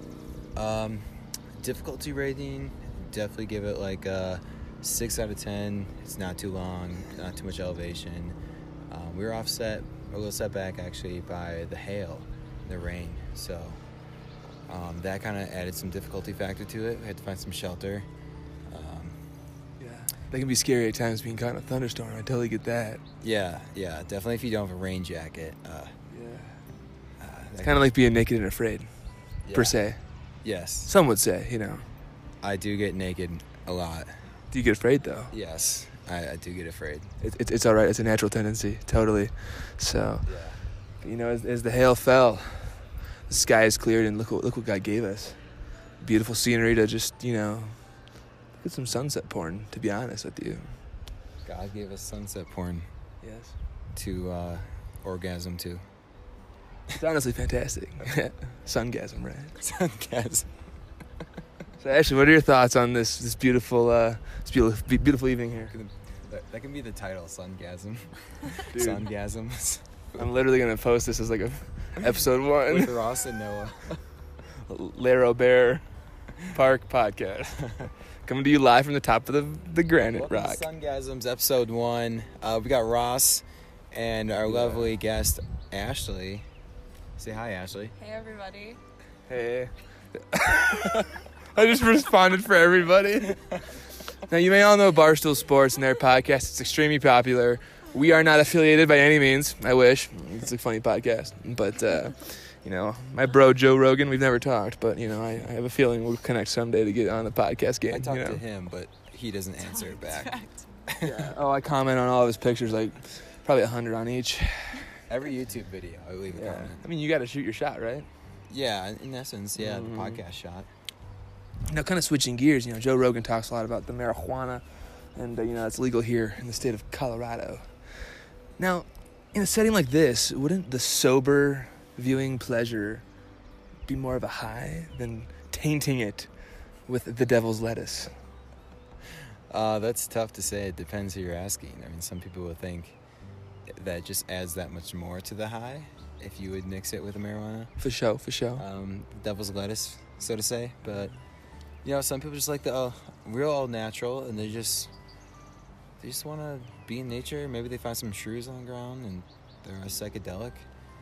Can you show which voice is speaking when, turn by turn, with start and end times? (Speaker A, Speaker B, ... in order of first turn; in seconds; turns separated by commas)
Speaker A: 0.6-1.1, Speaker A: 1.6-8.4, Speaker A: 8.9-13.8, Speaker A: 14.7-18.1, Speaker A: 18.7-19.2, Speaker B: 19.8-23.0, Speaker A: 23.2-25.9, Speaker B: 26.1-26.6, Speaker A: 27.2-27.9, Speaker B: 27.6-28.9, Speaker A: 29.4-29.8, Speaker B: 29.5-30.0, Speaker A: 30.4-30.9, Speaker B: 30.9-31.8, Speaker A: 32.4-34.1, Speaker B: 34.5-35.3, Speaker A: 35.3-37.1, Speaker B: 37.2-40.3, Speaker A: 40.2-40.6, Speaker B: 41.0-45.4, Speaker B: 46.0-47.7, Speaker B: 48.6-50.7, Speaker A: 51.4-52.9, Speaker B: 53.2-53.5, Speaker A: 53.9-55.8, Speaker B: 56.9-59.5, Speaker A: 59.6-60.5, Speaker B: 61.8-65.7, Speaker A: 65.7-69.8, Speaker B: 68.7-69.0, Speaker B: 70.1-73.0, Speaker A: 72.7-74.0, Speaker B: 74.7-75.8, Speaker B: 76.4-80.6, Speaker A: 80.0-86.4, Speaker B: 84.5-84.9, Speaker A: 87.2-87.9, Speaker C: 88.0-88.8, Speaker B: 89.3-93.6, Speaker B: 94.2-108.4, Speaker A: 107.9-110.4, Speaker C: 109.6-110.7, Speaker A: 110.9-111.3, Speaker B: 111.0-114.9, Speaker A: 115.1-116.9, Speaker B: 116.3-118.1, Speaker A: 118.5-120.7, Speaker B: 119.5-120.2, Speaker B: 121.7-127.7, Speaker B: 128.6-133.0, Speaker B: 133.9-136.3, Speaker B: 136.9-138.1, Speaker A: 139.5-143.0, Speaker A: 143.7-147.7, Speaker B: 147.8-148.6, Speaker A: 148.6-151.1, Speaker A: 151.8-154.9, Speaker A: 156.0-160.7